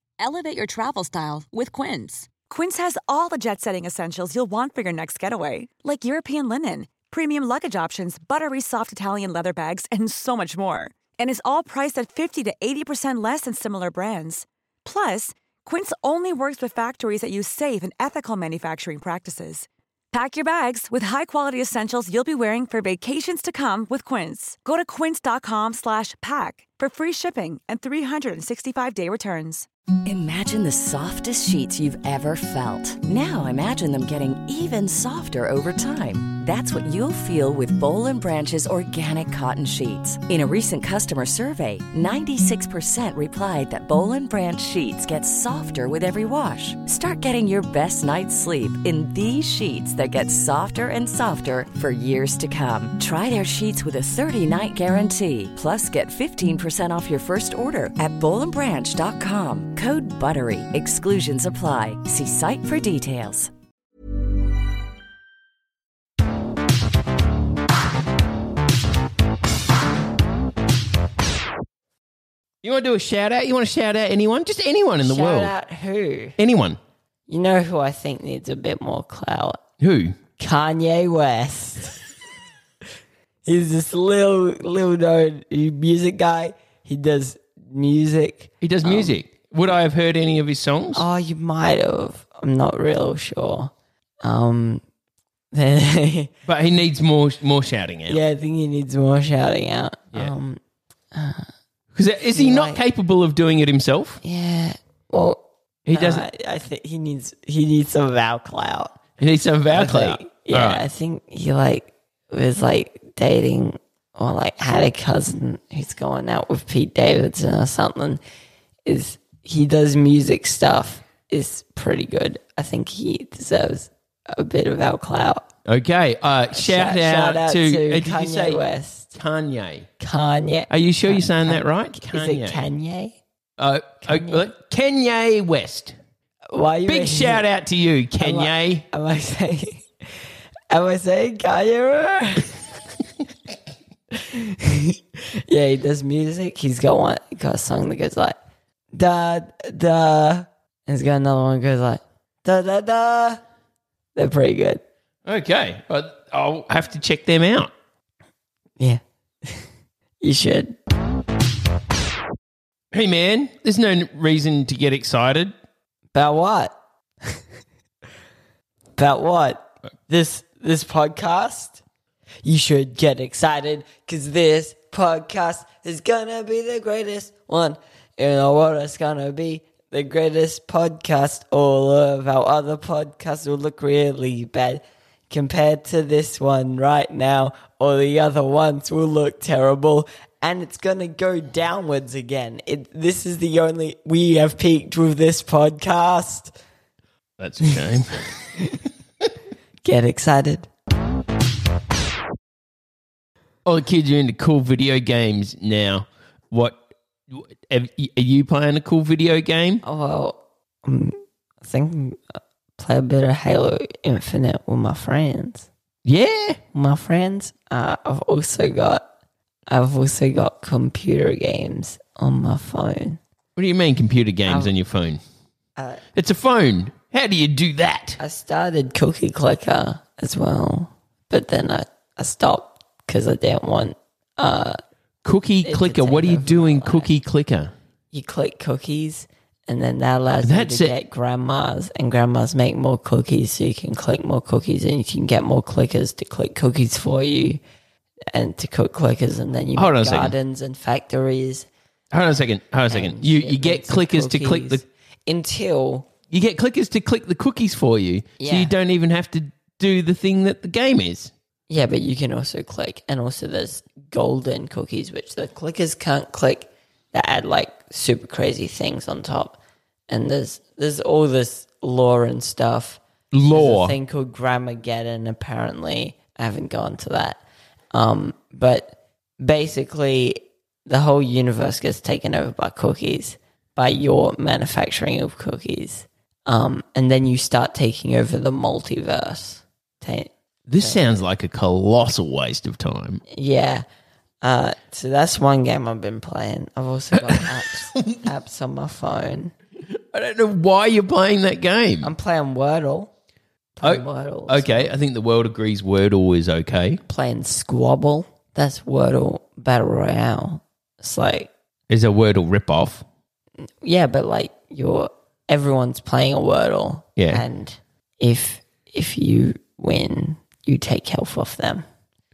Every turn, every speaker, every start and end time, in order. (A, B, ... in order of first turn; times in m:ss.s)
0:00.2-0:02.3 A
0:02.3-0:29.7 B
0:30.0-1:03.5 C
1:12.6-1:15.5 D
1:15.0-1:16.4 E
1:16.4-1:16.8 D
1:17.3-1:19.6 E
1:19.8-1:20.2 D
1:20.4-1:22.0 E
1:23.4-1:29.1 E
1:28.6-1:31.0 D
1:31.0-1:33.7 E
1:34.2-1:34.8 E
1:35.5-1:36.3 E
1:36.4-1:38.2 D
1:38.1-1:40.6 E
1:41.1-1:41.5 E
1:41.9-1:44.2 D
1:42.4-1:42.8 E
1:44.2-1:49.0 E
1:45.9-1:46.3 D
1:49.2-1:50.8 D
1:49.7-1:58.2 E
1:58.9-2:05.5 E
2:05.7-2:08.6 D
2:06.5-2:09.2 E
2:09.2-2:09.9 D
2:10.0-2:13.2 E
2:10.7-2:12.6 D
2:13.6-2:16.0 D
2:14.0-2:14.5 E
2:16.5-2:17.5 E
2:16.9-2:18.8 D
2:18.2-2:19.8 E
2:20.7-2:22.6 E
2:24.1-2:28.4 E
2:28.9-2:33.4 E
2:34.2-2:34.8 E
2:35.2-2:37.7 D
2:38.8-2:39.6 E
2:40.2-2:40.8 E
2:42.9-2:45.5 D
2:46.1-2:46.8 E
2:49.0-2:51.8 E
2:52.4-3:16.5 E
3:17.4-3:18.5 D
3:19.8-3:20.7 E
3:23.6-3:29.8 D
3:29.8-3:32.2 E
3:32.8-3:35.7 E
3:36.0-3:36.6 D
3:36.7-3:39.0 E
3:39.7-3:43.2 E
3:43.6-3:45.2 D
3:44.5-3:44.7 E
3:45.8-3:46.0 E
3:46.2-3:48.2 D
3:48.2-3:54.8 E
3:55.2-3:57.7 D
3:55.6-3:57.1 E
3:58.1-4:07.6 E
4:00.4-4:01.0 D
4:08.3-4:11.7 E
4:09.8-4:10.4 D
4:12.1-4:14.8 D
4:12.9-4:16.1 E
4:16.3-4:21.3 D
4:18.4-4:18.7 E
4:21.7-4:29.6 E
4:30.1-4:37.4 E
4:33.3-4:34.0 D
4:37.9-4:51.0 E
4:50.7-4:53.2 D
4:53.3-4:53.8 E
4:54.4-4:59.5 E
4:57.1-4:58.2 D
4:59.9-5:02.1 D
5:02.0-5:03.1 E
5:03.8-5:04.9 E
5:03.8-5:07.0 D
5:07.1-5:11.5 E
5:11.9-5:13.0 D
5:13.8-5:21.8 E
5:17.2-5:17.4 D